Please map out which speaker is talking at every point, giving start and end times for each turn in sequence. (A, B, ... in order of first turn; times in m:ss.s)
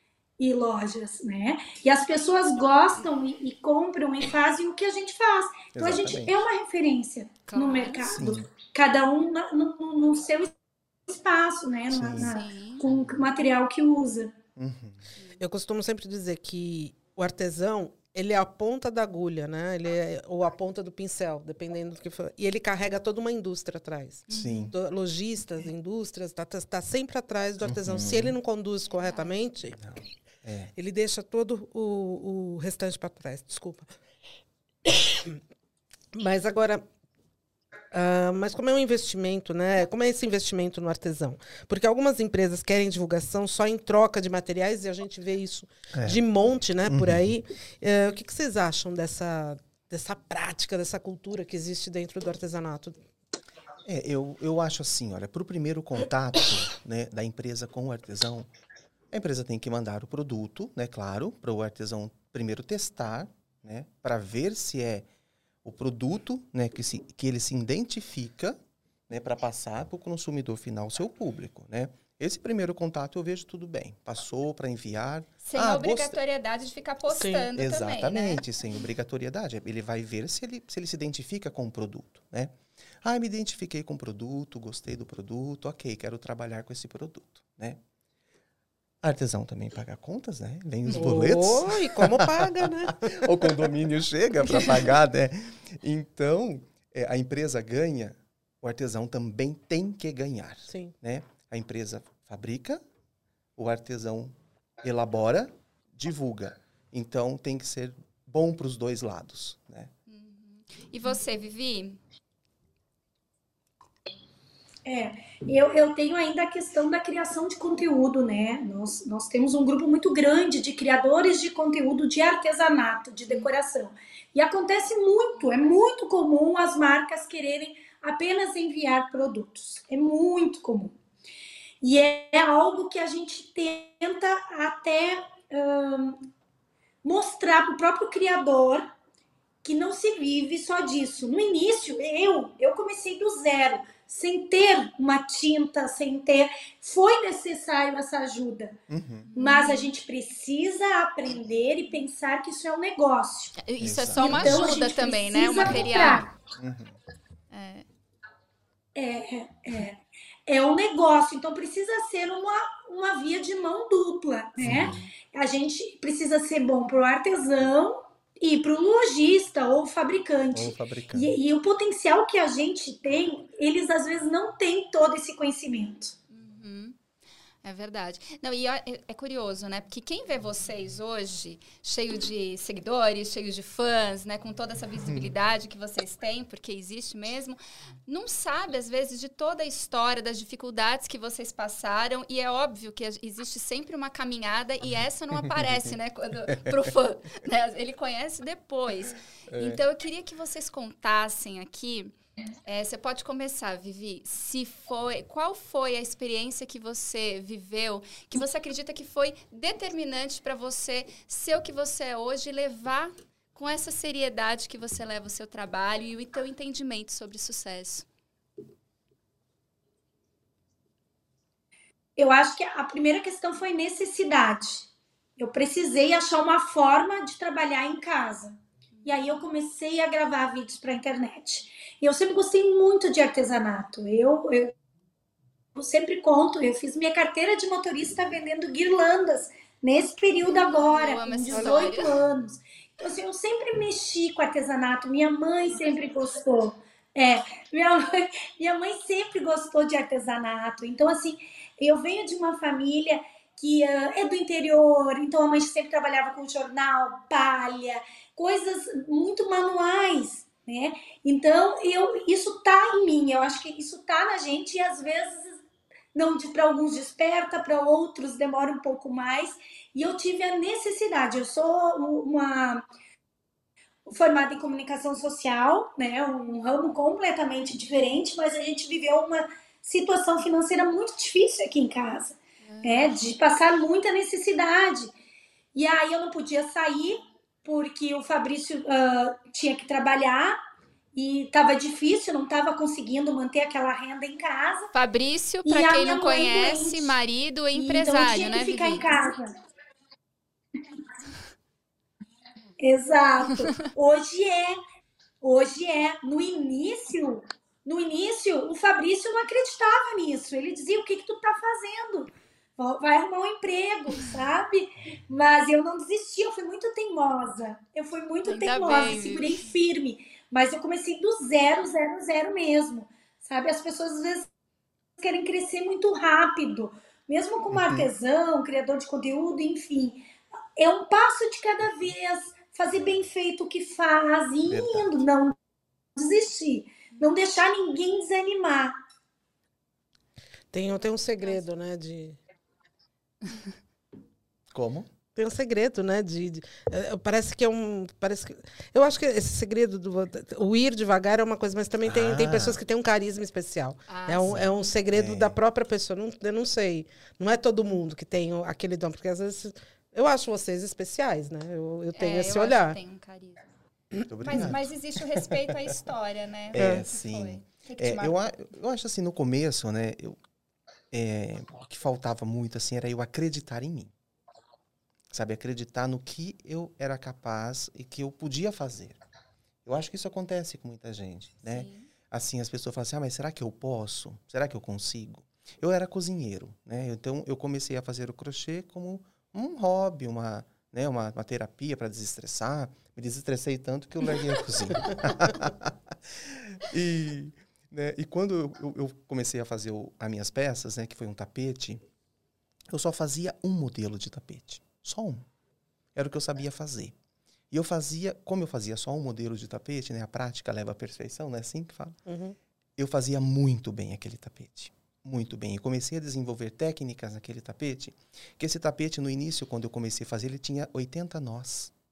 0:00.4-0:10.5 A
0:05.7-0:06.4 B
0:07.5-0:08.1 C
0:08.1-0:08.5 B
0:11.1-0:14.3 A
0:11.9-0:12.4 B
0:12.2-0:12.8 C
0:14.6-0:15.1 B
0:15.4-0:29.8 D
0:24.3-0:24.7 C
0:24.3-0:24.7 B
0:27.6-0:28.3 B
0:29.0-0:29.3 C
0:29.8-0:30.7 B
0:30.7-0:33.9 D
0:34.8-0:35.4 D
0:36.1-0:36.8 D
0:37.9-0:53.0 D
0:45.9-0:46.2 B
0:46.8-0:47.3 B
0:53.8-0:58.5 B
0:59.1-1:05.0 B
1:05.6-1:16.2 B
1:15.4-1:18.4 C
1:17.1-1:17.5 D
1:17.5-1:27.8 B
1:29.0-1:42.8 B
1:30.9-1:33.6 D
1:40.7-1:40.9 D
1:43.6-1:49.9 B
1:50.1-1:52.0 C
1:54.8-2:11.0 A
2:11.8-2:16.3 A
2:17.0-2:18.9 A
2:19.6-2:28.8 A
2:28.9-2:29.3 B
2:29.3-2:29.9 C
2:29.4-2:33.6 A
2:33.6-2:36.3 C
2:33.8-2:34.7 B
2:34.2-2:36.3 A
2:36.6-2:36.9 B
2:37.5-2:37.8 C
2:38.9-2:56.1 A
2:44.6-2:45.0 B
2:50.5-2:51.4 B
2:56.3-2:57.0 C
2:57.6-3:22.1 C
3:05.0-3:05.4 B
3:15.4-3:15.7 B
3:19.5-3:19.8 B
3:22.6-3:38.1 C
3:42.2-3:54.7 A
3:55.7-4:25.6 A
4:00.4-4:02.2 C
4:01.5-4:01.9 D
4:26.1-4:32.8 A
4:34.0-4:45.1 A
4:42.6-4:43.2 C
4:45.7-4:50.6 A
4:51.1-4:54.9 A
4:54.9-4:59.1 C
4:55.6-4:57.1 A
4:57.7-4:59.5 A
5:02.8-5:04.8 A
5:05.4-5:24.5 A
5:18.4-5:19.7 C
5:25.2-5:35.6 A
5:27.7-5:28.1 B
5:34.7-5:35.2 B
5:36.1-5:39.0 A
5:40.7-5:42.4 D
5:44.7-5:45.1 B
5:45.3-6:03.0 D
5:52.0-5:52.8 B
5:54.1-5:54.6 C
5:54.5-5:55.5 B
6:02.1-6:03.7 C
6:04.2-6:04.7 D
6:04.3-6:04.9 B
6:04.4-6:08.4 C
6:05.4-6:05.9 B
6:06.7-6:10.4 B
6:06.8-6:07.0 D
6:11.1-6:14.1 B
6:15.3-6:19.2 B
6:19.8-6:42.0 B
6:21.7-6:22.1 C
6:42.9-6:45.4 B
6:46.1-6:47.1 B
6:47.7-6:52.2 B
6:52.2-6:52.6 D
6:53.0-7:01.9 B